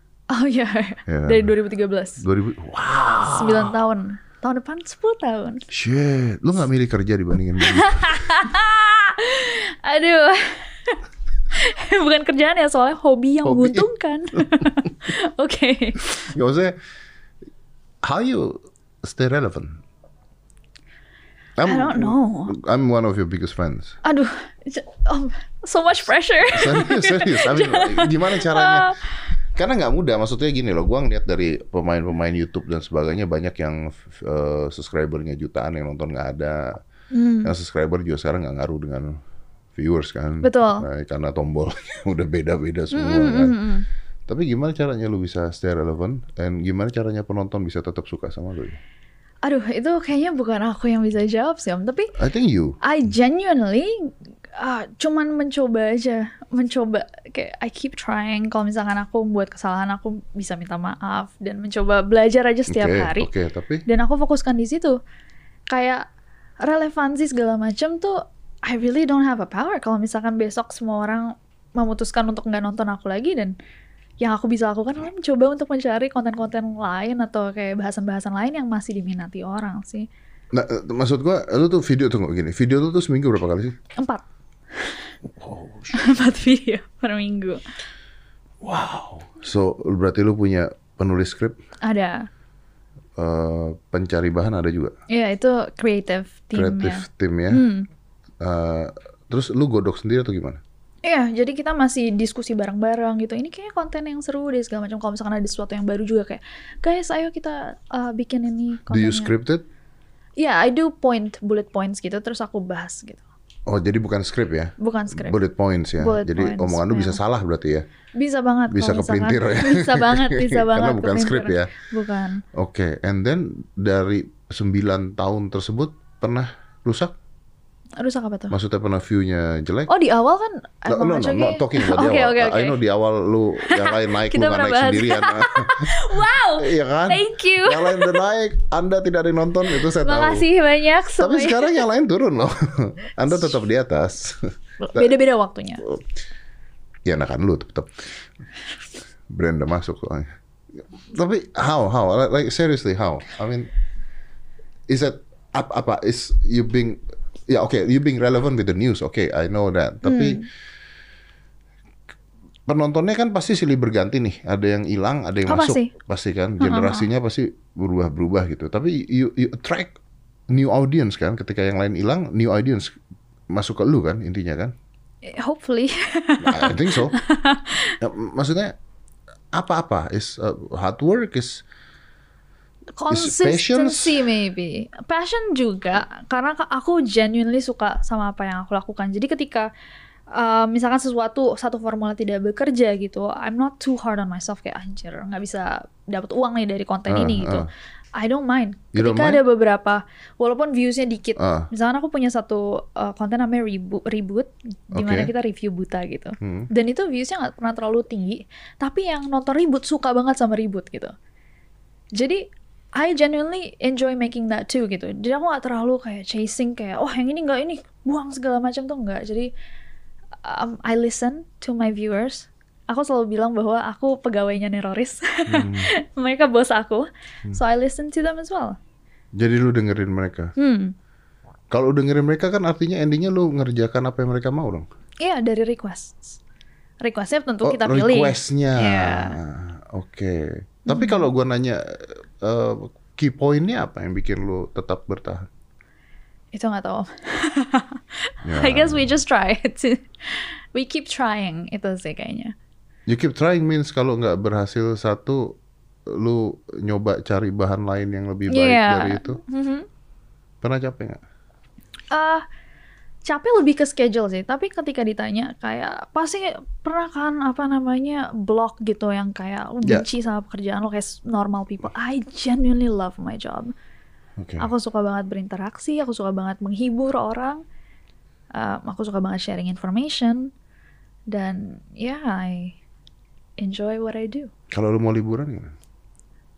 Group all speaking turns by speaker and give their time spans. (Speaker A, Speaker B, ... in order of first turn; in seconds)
Speaker A: 0.3-2.2, 3.2-5.7, 7.6-11.0, 11.5-16.3, 21.6-22.5, 24.0-29.1, 37.1-37.5, 40.4-40.9, 42.9-43.9, 49.4-52.1, 52.8-63.3, 63.9-65.0, 65.7-66.0, 66.6-73.5, 74.2-80.1, 84.0-84.2, 85.9-87.6, 91.8-92.3, 95.1-97.9, 101.0-109.3, 110.4-113.2, 114.8-115.4, 116.0-117.2, 118.2-122.4, 128.0-128.5, 129.9-132.8, 133.6-138.2, 139.7-141.8, 144.8-145.8, 160.0-160.5, 165.5-165.9, 166.6-167.1, 175.2-177.9, 183.0-189.7, 190.3-211.1, 212.1-212.4, 213.0-219.5, 220.4-228.8, 230.6-230.9, 235.2-236.4, 237.0-239.4, 240.9-241.2, 246.5-248.0, 248.5-252.5, 258.5-259.9, 262.1-262.4, 263.2-273.7, 274.6-277.6, 278.5-280.5, 281.3-282.8, 283.6-284.5
Speaker B: 1.1-1.5, 2.2-3.7, 5.7-8.4, 13.4-14.7, 16.2-16.8, 18.0-19.8, 21.6-24.0, 26.5-28.9, 29.5-36.8, 37.4-39.1, 39.7-43.5, 44.3-48.8, 52.1-52.8, 62.7-63.8, 80.5-83.7, 85.3-86.2, 88.6-91.6, 93.2-94.9, 96.5-97.6, 98.4-100.6, 108.9-109.6, 113.7-117.8, 118.7-121.7, 122.5-127.1, 128.5-129.9, 130.9-140.4, 141.2-145.1, 147.0-148.0, 149.3-153.7, 154.9-160.4, 162.7-169.9, 170.5-172.9, 173.5-174.7, 176.4-177.2, 178.0-178.7, 179.5-181.6, 183.1-184.2, 197.1-197.7, 198.9-199.4, 201.4-201.7, 204.9-205.3, 206.4-206.7, 225.5-225.9, 229.4-230.5, 231.7-234.9, 237.6-245.5, 248.4-249.1, 253.1-259.4, 260.6-261.2, 274.4-274.7, 284.7-285.7